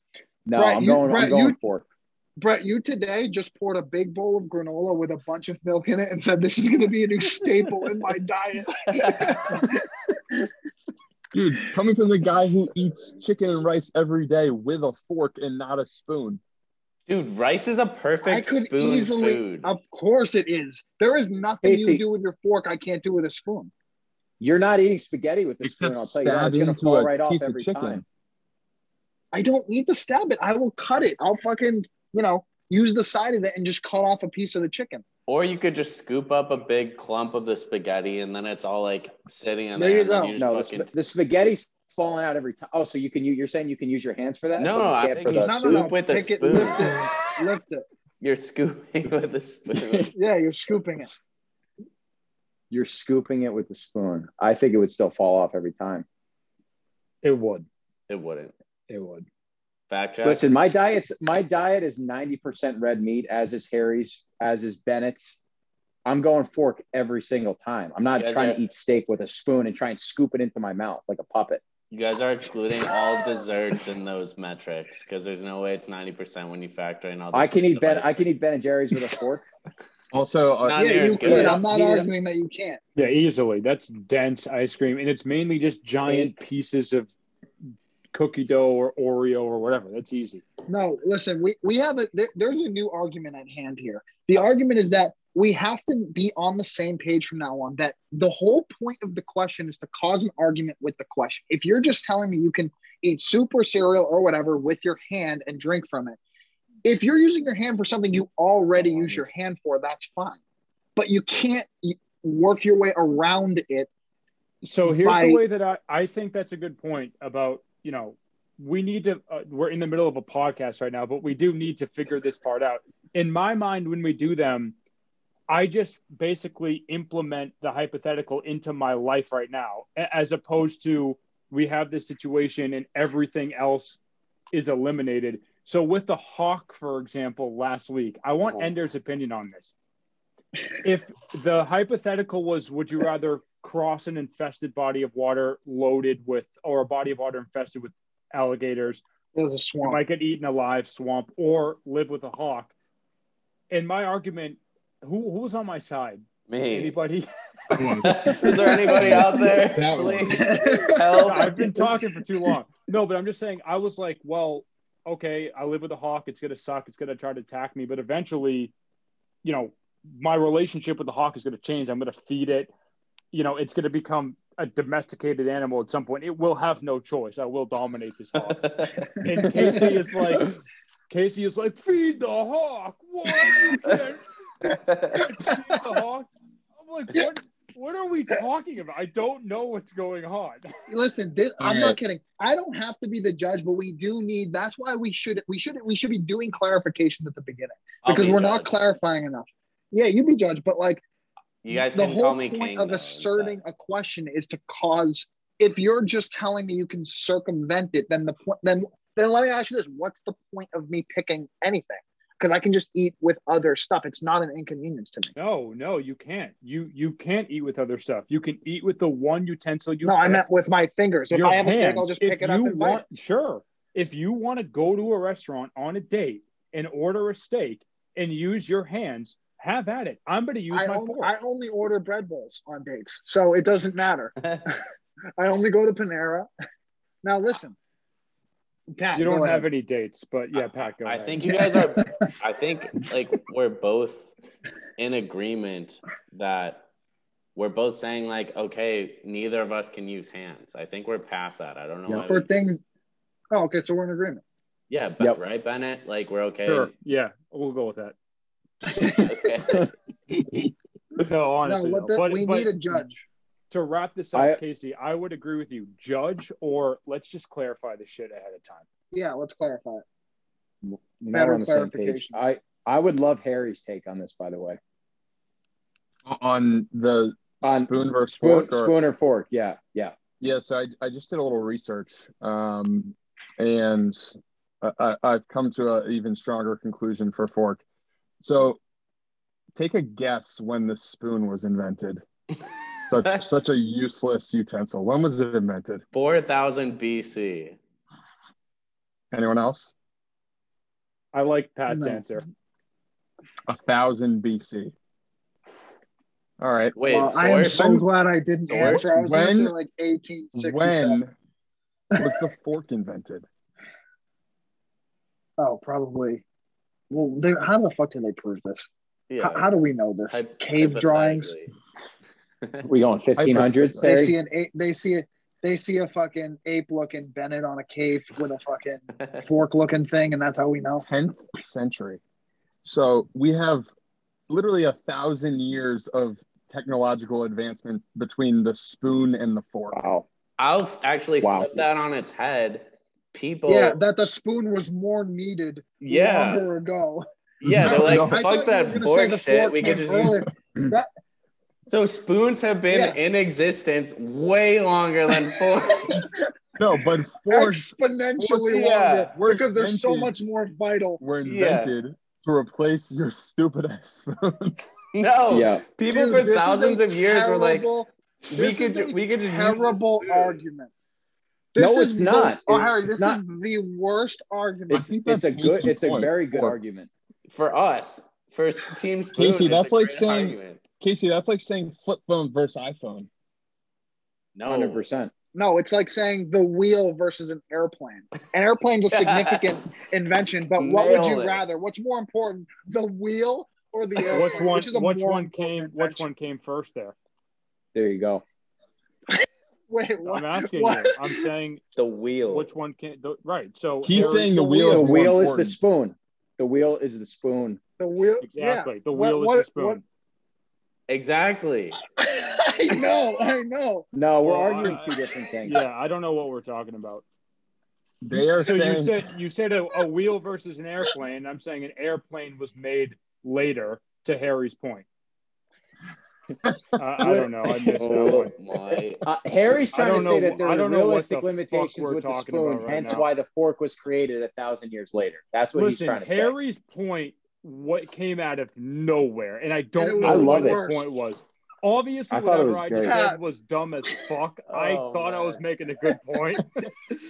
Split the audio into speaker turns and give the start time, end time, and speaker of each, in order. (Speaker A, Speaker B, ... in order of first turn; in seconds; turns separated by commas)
Speaker A: 0.5-1.8, Speaker B: 0.6-1.6, Speaker B: 2.4-10.0, Speaker C: 8.9-9.5, Speaker D: 11.3-16.4, Speaker C: 17.1-19.7, Speaker B: 18.2-23.7, Speaker A: 21.6-22.0, Speaker A: 24.4-28.0, Speaker D: 25.6-28.0, Speaker B: 29.3-35.0, Speaker C: 35.3-40.9, Speaker B: 39.8-40.4, Speaker A: 40.4-45.9, Speaker C: 44.6-47.0, Speaker B: 45.4-47.9, Speaker C: 48.2-50.1, Speaker B: 50.1-51.1, Speaker A: 52.7-56.0, Speaker E: 57.2-57.7, Speaker C: 58.1-58.5, Speaker E: 58.9-59.3, Speaker C: 59.9-60.5, Speaker A: 60.2-65.4, Speaker A: 66.1-71.6, Speaker C: 68.2-68.6, Speaker C: 71.9-78.3, Speaker A: 77.3-79.5, Speaker D: 80.1-80.8, Speaker C: 80.6-81.7, Speaker B: 80.8-82.8, Speaker A: 81.3-81.9, Speaker E: 83.0-87.1, Speaker A: 86.0-86.4, Speaker E: 88.1-90.4, Speaker B: 90.7-106.2, Speaker B: 106.8-110.4, Speaker A: 108.8-109.3, Speaker B: 111.0-113.9, Speaker E: 114.6-124.8, Speaker B: 114.8-115.4, Speaker E: 125.5-134.0, Speaker E: 134.5-139.8, Speaker E: 140.8-149.0, Speaker B: 149.3-150.0, Speaker E: 149.8-152.7, Speaker E: 153.7-158.2, Speaker C: 156.5-157.0, Speaker D: 157.7-160.6, Speaker C: 158.0-161.8, Speaker B: 158.3-159.4, Speaker B: 160.3-161.7, Speaker E: 161.2-168.7, Speaker E: 169.4-172.7, Speaker E: 173.3-180.6, Speaker C: 178.4-179.1, Speaker E: 181.1-184.2, Speaker C: 184.9-185.2, Speaker E: 185.1-190.7, Speaker B: 190.9-201.0, Speaker D: 191.6-192.0, Speaker C: 198.0-198.7, Speaker C: 201.6-203.6, Speaker B: 201.7-215.3, Speaker E: 215.4-220.4, Speaker B: 220.0-223.0, Speaker E: 221.3-231.3, Speaker B: 230.7-234.8, Speaker B: 235.4-236.5, Speaker B: 237.2-237.8, Speaker B: 239.0-239.7, Speaker E: 239.2-241.5, Speaker C: 240.6-244.3, Speaker B: 241.4-242.1, Speaker C: 245.0-246.9, Speaker C: 247.6-252.5, Speaker B: 252.3-252.8, Speaker B: 253.5-254.4, Speaker C: 254.9-256.9, Speaker E: 256.7-258.1, Speaker B: 258.9-259.8, Speaker C: 258.9-259.9, Speaker E: 261.2-263.0, Speaker B: 261.6-263.2, Speaker E: 263.7-268.9, Speaker A: 264.3-264.6, Speaker B: 269.1-270.0, Speaker A: 270.8-274.8, Speaker B: 271.3-272.4, Speaker D: 276.2-278.9, Speaker A: 277.6-280.1, Speaker D: 280.4-287.8, Speaker D: 288.4-288.8, Speaker D: 289.8-292.2, Speaker D: 293.1-296.0, Speaker C: 296.1-297.8, Speaker D: 299.3-299.9, Speaker E: 301.3-302.5, Speaker B: 301.9-302.2, Speaker D: 303.7-304.9, Speaker D: 306.6-307.0, Speaker C: 306.9-308.1, Speaker B: 307.1-311.2, Speaker C: 308.7-309.1, Speaker D: 308.8-309.7, Speaker D: 310.6-311.3, Speaker D: 312.2-313.4, Speaker B: 315.6-316.4, Speaker B: 317.1-318.9, Speaker C: 319.3-319.7, Speaker B: 319.4-321.5, Speaker C: 320.3-321.7, Speaker A: 322.8-324.4, Speaker D: 323.4-324.1, Speaker B: 324.0-331.1, Speaker D: 331.0-332.2, Speaker D: 332.8-333.9, Speaker D: 334.5-340.0, Speaker A: 339.9-340.3, Speaker C: 340.6-344.0, Speaker A: 341.4-341.9, Speaker B: 343.7-347.2, Speaker C: 346.0-346.7, Speaker C: 347.6-350.4, Speaker D: 347.6-348.4, Speaker B: 347.9-351.1, Speaker D: 350.1-350.9, Speaker C: 351.9-356.3, Speaker B: 352.9-353.2, Speaker B: 356.1-356.4, Speaker D: 356.8-358.7, Speaker B: 357.5-361.2, Speaker C: 358.7-359.3, Speaker D: 359.3-360.3, Speaker D: 361.2-364.9, Speaker C: 361.4-362.0, Speaker C: 365.1-367.9, Speaker A: 365.5-365.8, Speaker B: 366.1-370.9, Speaker C: 368.5-370.6, Speaker B: 371.7-375.1, Speaker A: 371.8-373.4, Speaker A: 374.9-377.1, Speaker D: 374.9-376.8, Speaker C: 377.5-380.8, Speaker D: 379.3-383.3, Speaker C: 384.6-385.1, Speaker A: 384.7-385.3, Speaker B: 385.6-396.3, Speaker C: 389.1-389.7, Speaker C: 390.8-391.6, Speaker E: 394.3-397.1, Speaker A: 397.9-398.4, Speaker B: 399.3-401.4, Speaker E: 400.2-401.8, Speaker C: 402.0-402.7, Speaker E: 402.5-404.6, Speaker D: 404.0-405.8, Speaker B: 404.1-405.1, Speaker A: 404.6-407.8, Speaker B: 408.0-410.0, Speaker E: 408.4-410.0, Speaker C: 411.1-412.0, Speaker B: 412.2-414.1, Speaker A: 414.1-415.9, Speaker E: 414.4-417.2, Speaker D: 418.2-419.3, Speaker E: 418.6-425.1, Speaker E: 427.0-428.5, Speaker D: 427.2-428.3, Speaker C: 427.9-429.2, Speaker A: 428.0-428.4, Speaker A: 429.2-436.5, Speaker E: 429.9-433.3, Speaker E: 435.8-446.9, Speaker B: 440.0-441.1, Speaker A: 440.2-440.8, Speaker A: 442.3-443.2, Speaker B: 443.0-443.4, Speaker C: 444.7-445.6